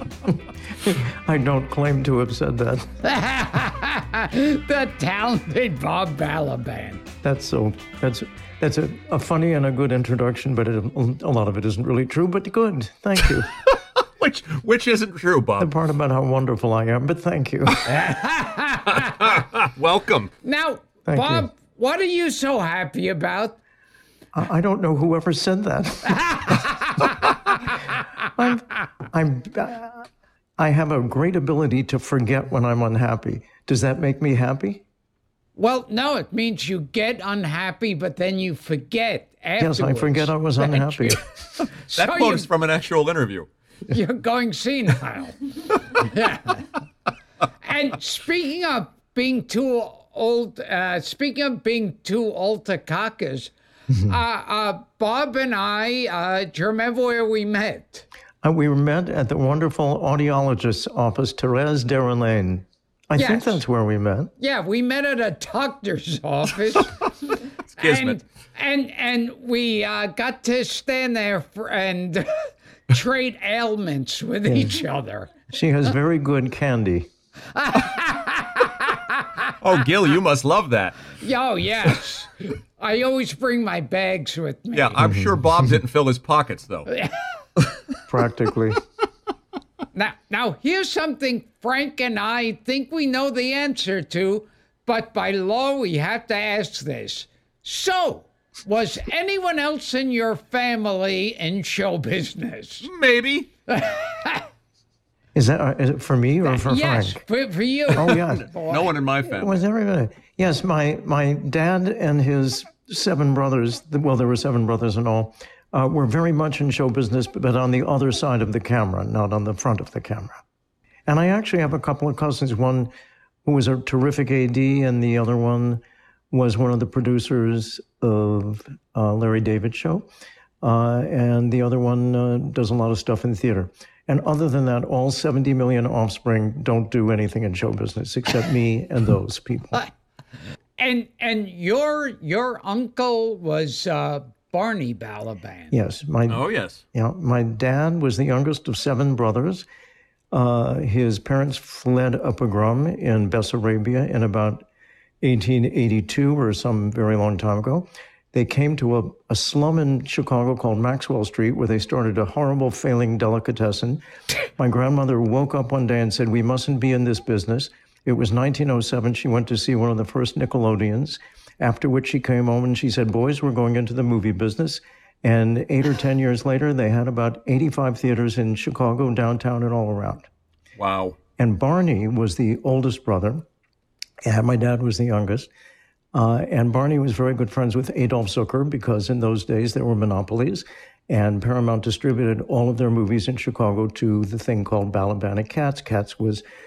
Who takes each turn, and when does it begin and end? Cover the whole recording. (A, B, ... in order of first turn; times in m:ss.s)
0:00.3-0:02.9 A
0:03.0-0:07.0 B
0:07.2-0:13.5 A
0:13.7-0:15.7 C
0:15.6-0:17.9 A
0:17.9-0:19.1 B
0:18.9-0:20.3 C
0:20.4-0:23.6 B
0:21.1-0:21.5 A
0:24.3-0:26.7 A
0:28.4-0:30.1 A
0:30.6-0:34.8 A
0:35.6-0:41.2 B
0:39.6-0:41.2 A
0:41.9-0:42.5 B
0:41.9-0:43.5 C
0:43.9-0:45.4 B
0:45.9-0:46.6 B
0:47.6-0:53.5 B
0:54.0-0:58.0 B
0:58.4-1:04.3 A
1:03.2-1:03.6 B
1:04.4-1:07.0 B
1:07.7-1:08.2 C
1:07.8-1:12.3 B
1:12.9-1:15.4 B
1:14.5-1:14.8 A
1:15.5-1:17.1 A
1:17.6-1:19.0 B
1:19.6-1:21.2 C
1:21.2-1:25.0 B
1:24.7-1:26.9 C
1:25.0-1:25.3 A
1:28.1-1:28.8 A
1:29.9-1:42.9 B
1:42.8-1:43.5 C
1:43.7-1:44.4 B
1:45.4-1:47.2 A
1:46.4-1:48.9 B
1:47.9-1:48.4 A
1:48.2-1:49.6 C
1:49.2-2:00.4 A
2:01.1-2:02.9 A
2:03.4-2:10.1 A
2:10.6-2:19.8 A
2:20.8-2:25.8 B
2:25.7-2:29.7 A
2:26.3-2:26.8 C
2:30.3-2:34.6 A
2:35.2-2:44.0 A
2:44.6-3:00.3 A
3:00.8-3:01.2 C
3:01.4-3:03.5 A
3:04.2-3:05.5 A
3:06.1-3:16.4 A